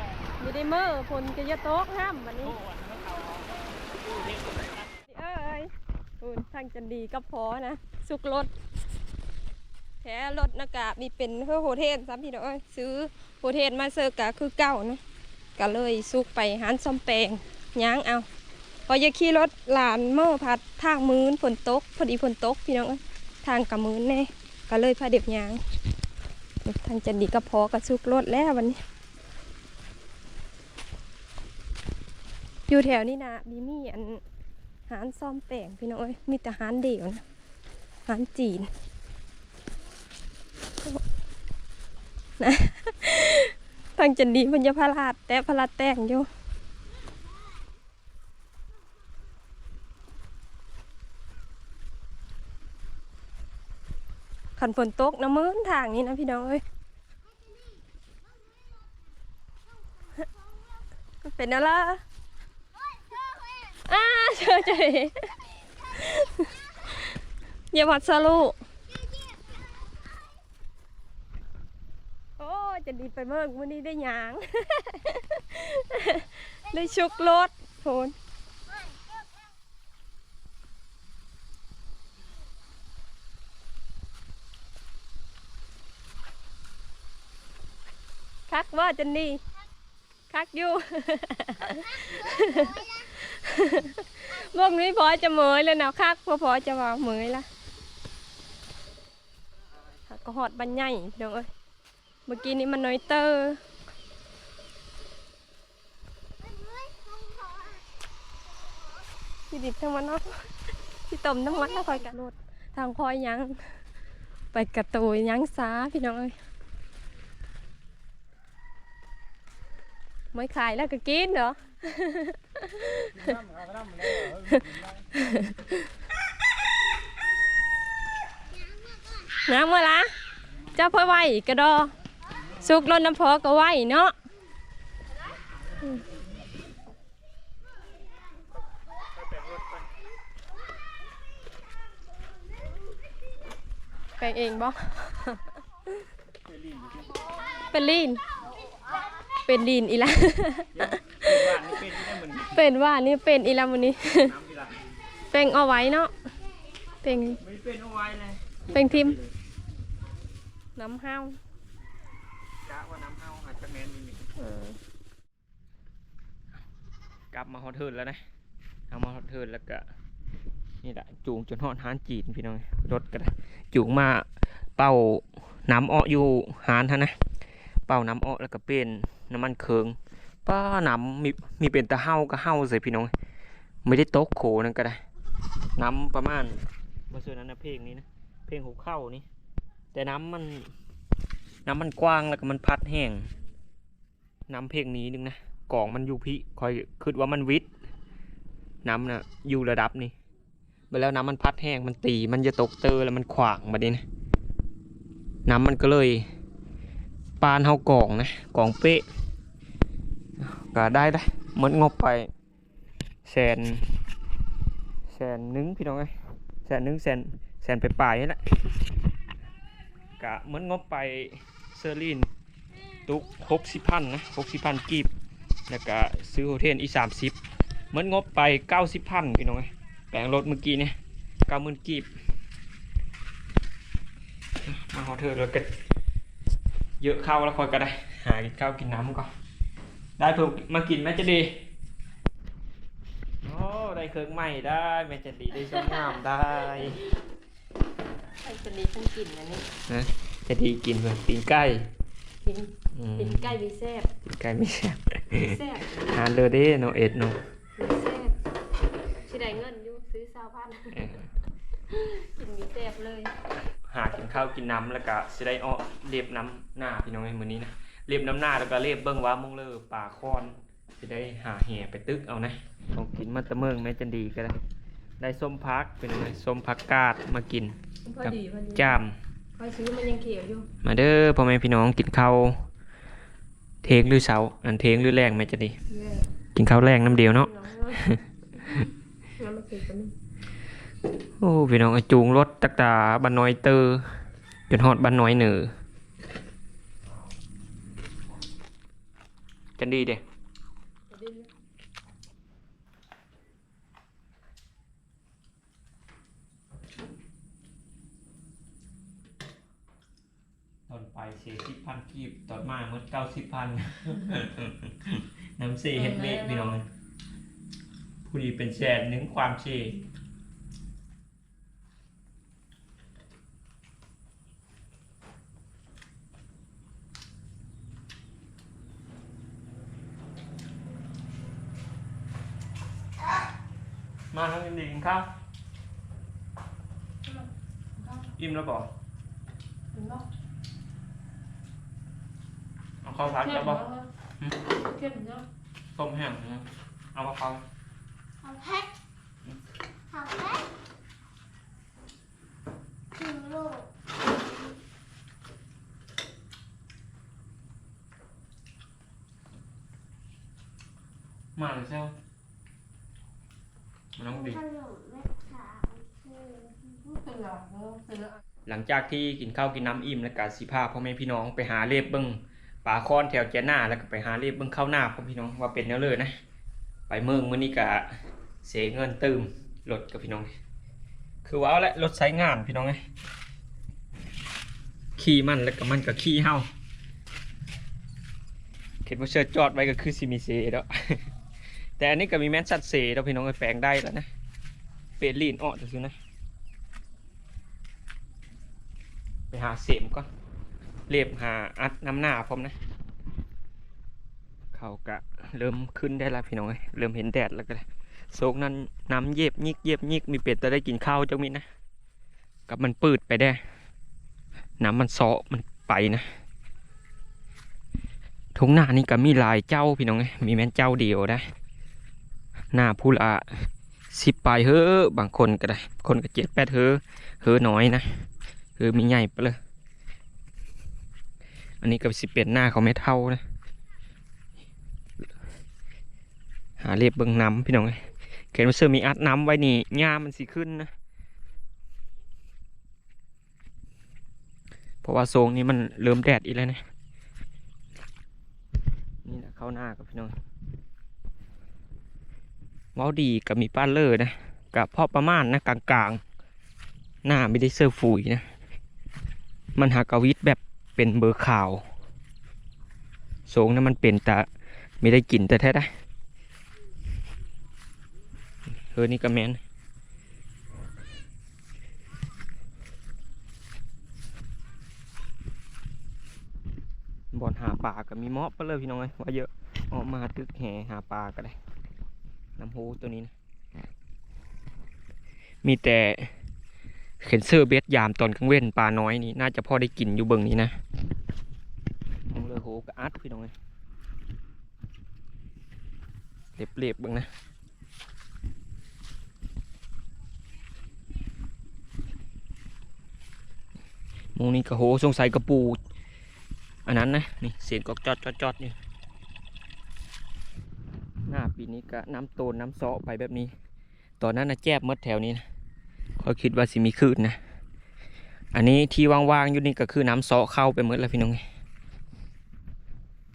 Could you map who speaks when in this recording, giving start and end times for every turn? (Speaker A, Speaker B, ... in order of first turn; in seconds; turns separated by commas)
Speaker A: 0.4-2.6, Speaker B: 2.5-4.9, Speaker A: 5.0-8.5, Speaker A: 10.0-15.0, Speaker A: 15.6-18.3, Speaker A: 18.9-25.6, Speaker A: 26.6-28.8, Speaker A: 32.7-34.2, Speaker A: 34.9-37.2, Speaker A: 38.1-38.7, Speaker A: 42.4-46.3, Speaker A: 54.6-56.6, Speaker A: 61.2-62.0, Speaker A: 63.8-65.3, Speaker A: 65.9-67.2, Speaker A: 67.7-68.6, Speaker A: 72.4-78.1, Speaker A: 88.5-89.4, Speaker A: 90.3-97.5, Speaker A: 100.1-101.5, Speaker A: 102.3-103.6, Speaker C: 106.9-107.7, Speaker A: 109.5-110.5, Speaker A: 111.1-113.6, Speaker A: 114.5-116.3, Speaker A: 120.3-123.4, Speaker A: 124.2-125.8, Speaker A: 129.5-130.1, Speaker A: 130.7-131.9, Speaker A: 132.6-134.1, Speaker B: 139.2-139.8, Speaker A: 144.2-145.4, Speaker B: 146.5-147.2, Speaker A: 147.7-148.2, Speaker A: 149.4-151.0, Speaker B: 150.7-152.6, Speaker A: 152.5-154.3, Speaker B: 154.3-154.8, Speaker A: 155.3-156.1, Speaker A: 157.0-157.4, Speaker B: 157.4-159.3, Speaker A: 158.7-159.2, Speaker A: 160.8-161.4, Speaker B: 162.7-164.3, Speaker A: 164.4-164.8, Speaker B: 167.3-168.2, Speaker B: 168.9-169.8, Speaker B: 170.8-177.2, Speaker B: 177.9-183.1, Speaker B: 183.8-185.0, Speaker B: 185.8-189.3, Speaker B: 189.9-190.7, Speaker B: 191.7-193.3, Speaker B: 194.5-197.7, Speaker B: 198.8-200.1, Speaker B: 200.9-204.0, Speaker B: 205.5-206.3, Speaker B: 207.4-209.1, Speaker B: 210.4-212.3, Speaker B: 213.3-213.9, Speaker B: 215.1-216.1, Speaker B: 216.7-218.4, Speaker B: 220.2-222.3, Speaker B: 223.1-225.1, Speaker B: 225.7-227.4, Speaker B: 227.9-232.1, Speaker B: 234.6-235.7, Speaker B: 237.0-239.3, Speaker B: 240.2-241.7, Speaker B: 243.4-247.0, Speaker A: 245.6-246.2, Speaker A: 248.4-249.7, Speaker B: 249.9-251.9, Speaker A: 252.4-254.1, Speaker B: 252.9-253.6, Speaker B: 254.2-257.4, Speaker A: 255.3-256.1, Speaker A: 257.8-258.4, Speaker A: 259.2-261.1, Speaker B: 260.9-261.3, Speaker A: 261.9-263.3, Speaker B: 263.8-274.6, Speaker B: 275.2-279.2, Speaker A: 278.1-279.0, Speaker A: 279.6-280.7, Speaker B: 280.8-282.7, Speaker B: 283.8-285.8, Speaker A: 285.9-286.3, Speaker B: 286.6-288.9, Speaker A: 287.3-288.0, Speaker A: 289.4-290.1, Speaker B: 291.4-294.2, Speaker B: 294.7-295.7, Speaker B: 299.8-300.2, Speaker A: 301.1-301.5, Speaker B: 310.9-316.9, Speaker A: 315.9-316.7, Speaker B: 318.2-320.0, Speaker B: 334.3-335.3, Speaker A: 338.0-338.3, Speaker B: 338.4-338.9, Speaker A: 339.9-340.3, Speaker B: 343.0-343.8, Speaker A: 343.2-344.1, Speaker A: 344.8-345.5, Speaker B: 345.9-347.6, Speaker C: 348.4-348.9, Speaker C: 350.1-350.7, Speaker C: 353.1-353.9, Speaker B: 361.6-362.2, Speaker B: 364.2-364.6, Speaker C: 364.3-367.2, Speaker A: 367.2-368.4, Speaker B: 368.7-376.4, Speaker B: 377.1-378.1, Speaker B: 378.6-380.5, Speaker B: 381.4-383.0, Speaker B: 385.2-386.7, Speaker B: 389.1-391.3, Speaker B: 392.0-394.3, Speaker B: 395.2-396.2, Speaker B: 399.5-400.3, Speaker B: 401.1-402.8, Speaker B: 404.7-411.7, Speaker B: 412.7-413.6, Speaker B: 414.8-416.3, Speaker B: 418.6-421.4, Speaker B: 422.7-428.1, Speaker B: 428.8-429.6, Speaker B: 431.8-433.4, Speaker B: 436.8-440.9, Speaker B: 445.0-446.8, Speaker B: 449.2-450.4, Speaker B: 452.9-456.2, Speaker B: 457.2-458.5, Speaker B: 459.8-461.8, Speaker B: 463.5-464.5, Speaker B: 465.0-465.9, Speaker B: 468.9-469.6, Speaker B: 477.3-481.6, Speaker B: 482.6-483.3, Speaker B: 485.6-486.3, Speaker B: 487.2-490.8, Speaker B: 492.3-493.5, Speaker B: 496.6-497.3, Speaker B: 504.4-505.8, Speaker B: 506.9-508.8, Speaker B: 511.3-513.5, Speaker B: 514.2-515.4, Speaker B: 516.2-517.4, Speaker B: 518.5-521.4